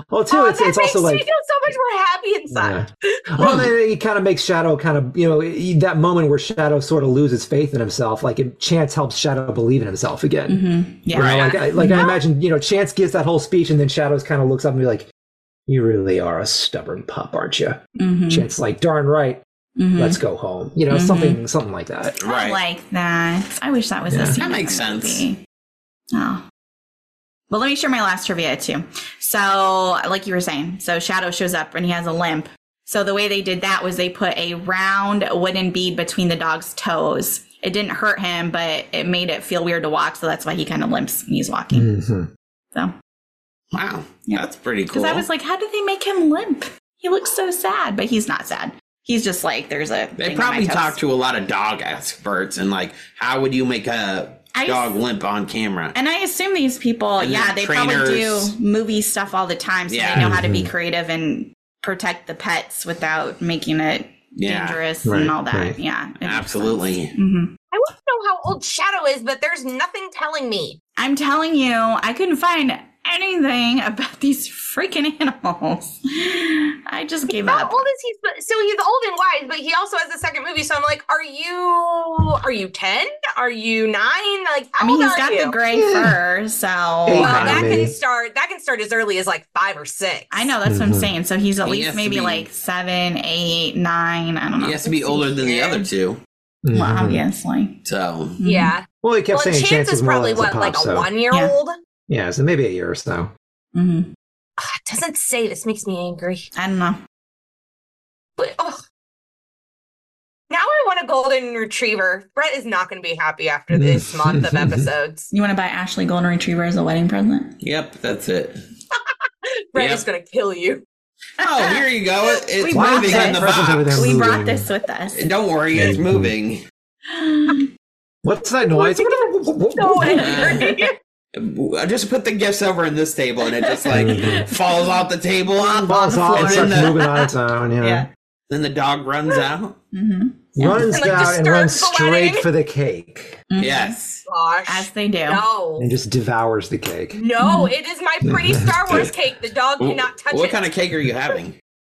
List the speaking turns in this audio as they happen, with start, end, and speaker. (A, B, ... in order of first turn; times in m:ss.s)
0:00.1-0:01.2 A
0:00.3-0:03.6 B
0:02.5-0:10.6 A
0:10.5-0:12.1 C
0:11.1-0:15.0 A
0:11.2-0:12.2 B
0:15.7-0:19.4 A
0:18.0-0:18.5 C
0:19.8-0:20.2 C
0:20.0-0:22.2 A
0:20.9-0:21.4 C
0:22.2-0:22.6 D
0:22.2-0:25.4 C
0:24.1-0:24.4 A
0:24.4-0:25.2 D
0:26.1-0:26.4 C
0:27.5-0:41.9 C
0:41.7-0:42.3 A
0:43.7-0:45.2 D
0:44.3-0:51.0 C
0:50.2-0:55.9 D
0:54.5-0:55.0 C
0:55.9-1:07.5 C
0:57.2-0:58.5 D
0:59.9-1:00.3 D
1:00.1-1:00.7 A
1:04.4-1:04.8 D
1:05.0-1:05.8 A
1:06.2-1:07.1 D
1:07.7-1:10.8 B
1:11.0-1:17.8 C
1:17.4-1:25.5 B
1:24.8-1:27.7 C
1:25.7-1:26.2 A
1:27.0-1:27.9 A
1:27.2-1:30.5 B
1:30.3-1:35.4 C
1:30.6-1:31.1 A
1:31.6-1:32.5 D
1:34.6-1:36.2 D
1:35.4-1:35.9 B
1:36.6-1:37.2 A
1:36.7-1:37.8 C
1:37.8-1:38.4 D
1:38.4-1:38.7 C
1:38.4-1:41.7 B
1:39.0-1:41.1 A
1:42.1-1:43.3 A
1:43.7-1:44.1 C
1:44.6-1:46.4 B
1:46.6-1:47.0 C
1:48.4-1:48.8 B
1:50.5-1:55.3 B
1:53.7-1:54.9 A
1:55.3-1:57.6 C
1:57.6-1:58.6 D
1:59.7-2:00.8 B
1:59.8-2:00.0 D
2:01.4-2:01.8 C
2:01.4-2:04.1 D
2:02.6-2:05.2 C
2:02.7-2:04.6 A
2:05.1-2:06.6 D
2:05.7-2:06.3 A
2:07.1-2:07.7 C
2:08.2-2:10.5 A
2:08.6-2:10.9 B
2:10.0-2:10.9 C
2:10.2-2:10.7 D
2:11.3-2:17.0 D
2:13.6-2:18.1 C
2:13.9-2:14.4 A
2:15.9-2:18.1 A
2:18.5-2:19.8 D
2:19.9-2:21.1 C
2:20.6-2:23.4 A
2:20.9-2:22.5 B
2:23.5-2:24.0 C
2:23.6-2:24.2 D
2:24.3-2:25.9 B
2:24.7-2:25.4 C
2:25.8-2:27.2 A
2:27.1-2:30.6 B
2:27.4-2:27.7 C
2:28.2-2:29.1 A
2:29.8-2:31.6 D